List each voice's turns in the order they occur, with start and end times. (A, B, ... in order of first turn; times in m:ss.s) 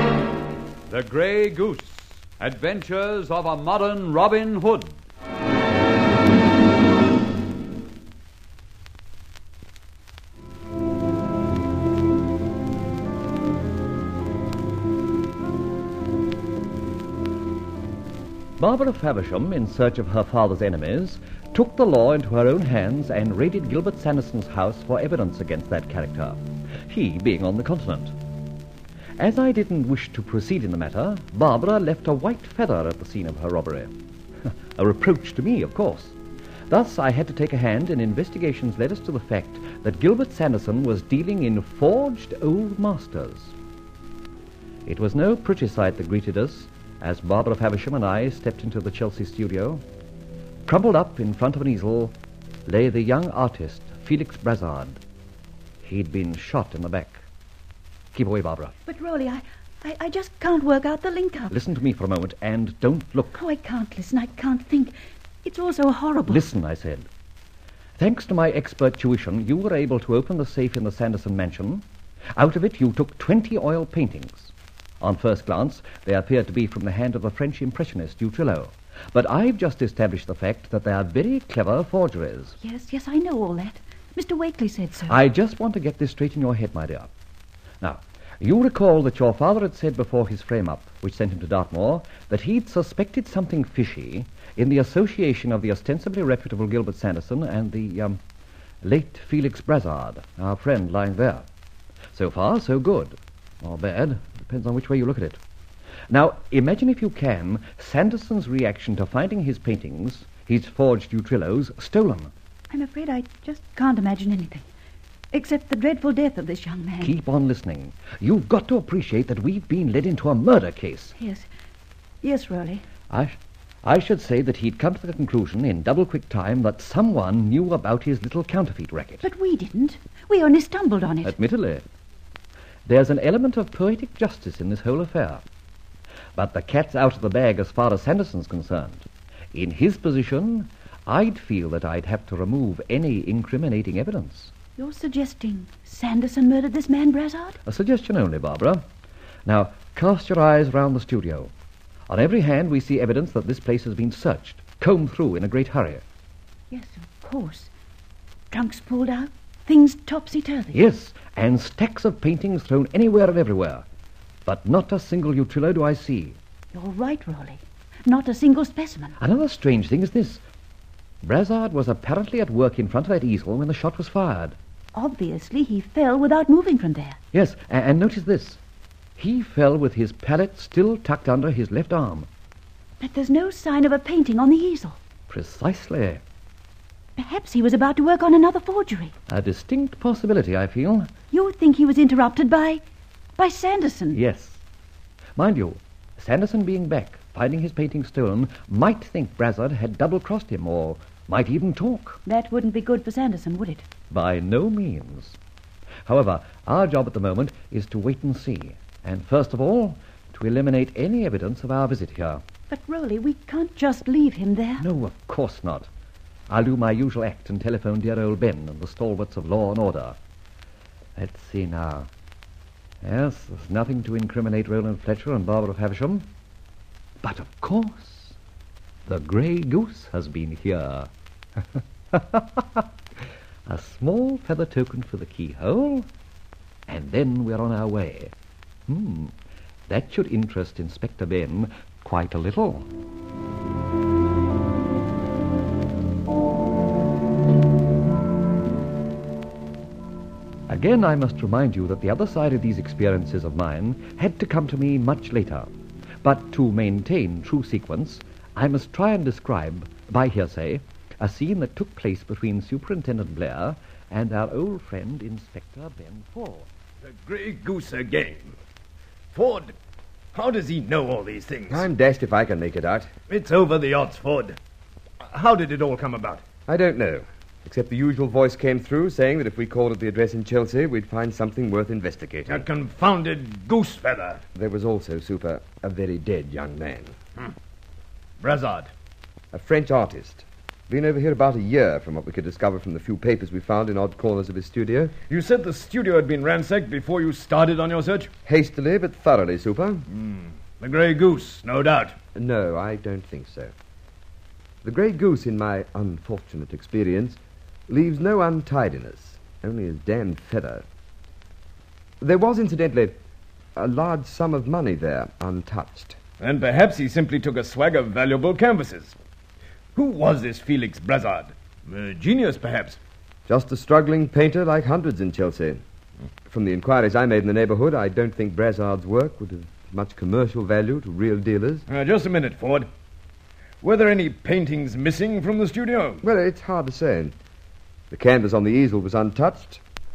0:00.9-0:05.0 A
0:18.6-0:28.2 B
0:29.2-0:33.9 B
0:34.8-0:36.2 B
0:36.7-0:43.6 B
0:44.9-0:49.8 B
0:50.7-0:52.2 B
0:52.7-0:55.0 B
0:55.8-0:57.3 B
0:58.1-0:58.8 B
0:58.9-1:01.5 C
1:01.5-1:03.4 B
1:03.3-1:04.9 C
1:05.4-1:06.4 C
1:06.3-1:07.1 B
1:08.0-1:11.8 B
1:12.4-1:22.6 B
1:22.6-1:25.2 C
1:25.1-1:27.1 B
1:27.8-1:38.2 B
1:38.8-1:41.5 B
1:42.1-1:45.4 B
1:46.1-1:52.3 B
1:52.7-1:54.7 C
1:55.3-1:57.1 C
1:57.0-2:01.2 B
2:01.2-2:01.5 C
2:02.2-2:02.8 C
2:03.1-2:09.2 B
2:09.2-2:11.4 C
2:11.2-2:11.9 B
2:12.9-2:15.4 B
2:16.4-2:24.5 B
2:24.8-2:27.6 C
2:27.6-2:28.8 B
2:29.5-2:31.5 B
2:32.1-2:36.0 B
2:36.7-2:37.7 C
2:38.5-2:40.8 C
2:40.7-2:43.8 B
2:44.4-2:46.4 B
2:46.7-2:49.2 C
2:49.2-2:50.4 B
2:51.2-2:54.6 B
2:54.9-2:57.2 C
2:57.3-2:58.6 B
2:59.2-3:02.3 B
3:03.0-3:05.0 C
3:05.3-3:06.2 B
3:07.2-3:09.1 C
3:09.3-3:11.1 B
3:11.3-3:12.8 C
3:13.4-3:14.2 C
3:14.1-3:14.6 B
3:15.4-3:22.2 B
3:22.2-3:23.8 C
3:24.1-3:25.4 B
3:26.1-3:32.4 B
3:32.7-3:34.9 C
3:34.8-3:35.9 B
3:36.5-3:40.2 B
3:41.2-3:42.1 B
3:43.0-3:46.3 B
3:47.2-3:48.4 B
3:49.1-3:51.1 B
3:52.1-3:52.9 B
3:53.7-3:56.1 B
3:56.9-3:58.3 B
3:58.9-3:59.3 B
3:59.9-4:02.9 B
4:10.7-4:26.7 B
4:27.0-4:28.6 D
4:29.3-4:29.7 D
4:30.3-4:31.9 D
4:31.7-4:33.1 E
4:33.3-4:34.6 D
4:35.2-4:36.4 D
4:36.7-4:42.7 E
4:42.5-4:44.4 D
4:44.6-4:47.1 E
4:48.4-4:48.9 D
4:49.5-4:55.2 E
4:55.3-4:58.3 D
4:58.5-5:00.0 E
5:00.1-5:02.2 D
5:02.4-5:03.7 E
5:04.8-5:10.8 E
5:12.2-5:13.2 E
5:13.8-5:16.2 E
5:16.4-5:19.2 D
5:20.0-5:23.0 D
5:23.5-5:25.8 E
5:26.5-5:31.8 E
5:31.9-5:32.9 D
5:33.8-5:36.2 D
5:36.2-5:37.4 E
5:38.1-5:39.8 E